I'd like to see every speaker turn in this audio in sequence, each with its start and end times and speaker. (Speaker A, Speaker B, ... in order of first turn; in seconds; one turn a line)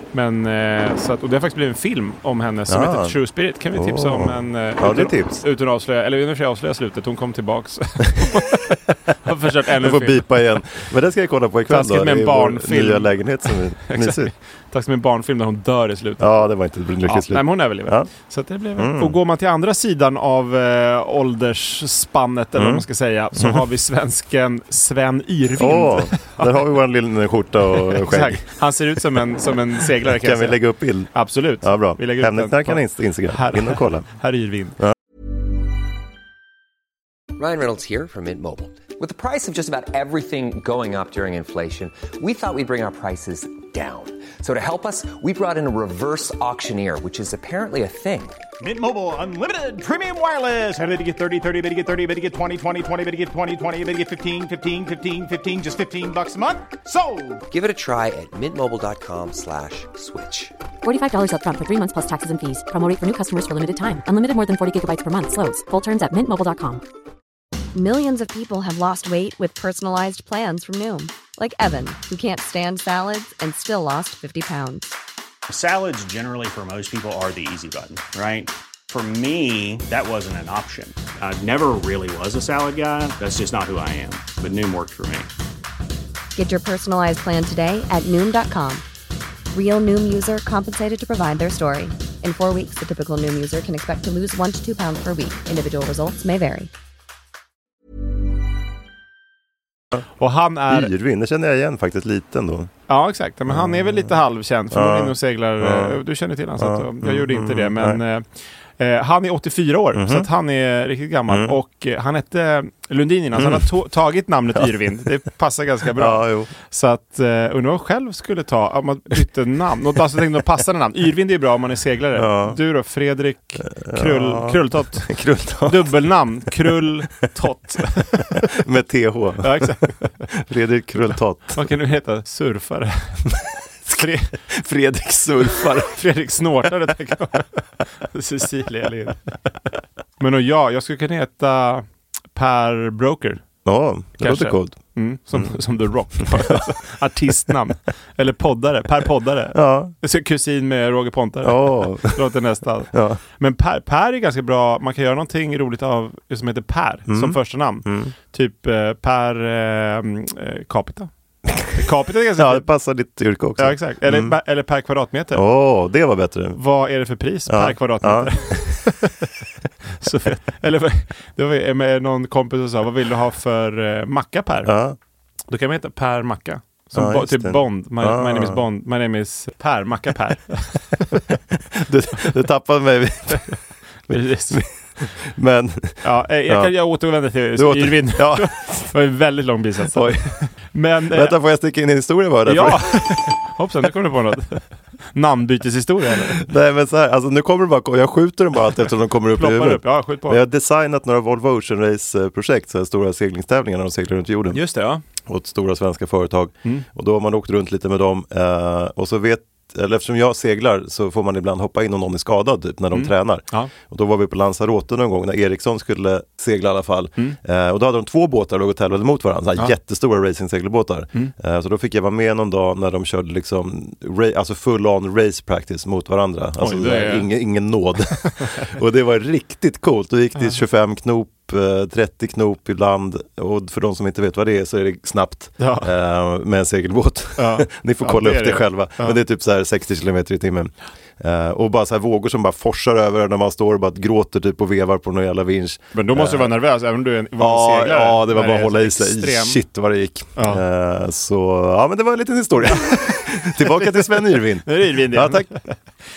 Speaker A: 0.1-10.3
Speaker B: 2.7-3.2
Speaker B: 3.7-5.4
Speaker B: 9.7-14.3
Speaker A: 11.7-16.4
Speaker B: 16.2-18.1
Speaker A: 17.0-26.7
Speaker B: 18.8-19.2
Speaker B: 22.6-22.9
Speaker B: 23.4-23.6
Speaker B: 25.6-29.2
Speaker A: 27.8-34.8
Speaker B: 29.8-34.1
Speaker C: 37.4-48.4
Speaker D: 48.6-57.4
Speaker C: 57.5-60.5
Speaker E: 60.8-66.8
Speaker F: 67.8-75.0
Speaker G: 75.5-85.3
Speaker F: 86.4-88.8
Speaker F: 89.5-96.7
Speaker A: 100.2-100.9
Speaker B: 100.7-102.7
Speaker A: 102.9-108.3
Speaker B: 103.5-104.2
Speaker B: 104.7-106.0
Speaker B: 106.6-108.0
Speaker A: 108.8-125.1
Speaker B: 109.9-110.3
Speaker B: 111.3-111.6
Speaker B: 113.4-113.7
Speaker B: 116.0-116.5
Speaker B: 122.2-122.6
Speaker B: 123.6-126.0
Speaker A: 125.7-128.5
Speaker B: 128.4-131.7
Speaker A: 129.4-130.3
Speaker A: 131.5-133.2
Speaker B: 133.3-136.0
Speaker A: 133.9-134.4
Speaker A: 135.8-139.4
Speaker A: 140.2-143.4
Speaker B: 143.7-144.8
Speaker A: 144.2-161.1
Speaker B: 146.2-146.6
Speaker B: 149.5-149.9
Speaker B: 151.4-152.2
Speaker B: 152.9-153.2
Speaker B: 157.1-158.1
Speaker A: 161.7-162.7
Speaker B: 162.4-164.4
Speaker A: 163.6-165.4
Speaker B: 165.3-166.6
Speaker A: 166.6-169.3
Speaker B: 167.5-168.5
Speaker A: 170.0-174.7
Speaker B: 174.7-175.0
Speaker A: 175.5-181.2
Speaker B: 176.9-178.6
Speaker B: 181.6-183.6
Speaker A: 184.1-184.6
Speaker B: 184.1-186.8
Speaker A: 186.0-191.3
Speaker B: 187.6-188.9
Speaker B: 189.9-190.4
Speaker B: 191.1-193.2
Speaker A: 192.4-196.4
Speaker B: 196.3-204.6
Speaker A: 199.3-200.4
Speaker A: 204.5-205.0
Speaker B: 205.2-246.5
Speaker A: 212.9-213.7
Speaker A: 226.6-227.3
Speaker A: 228.4-228.7
Speaker A: 235.6-235.9
Speaker A: 237.4-239.2
Speaker A: 245.9-249.6
Speaker B: 247.4-255.5
Speaker A: 250.4-250.6
Speaker A: 252.6-255.8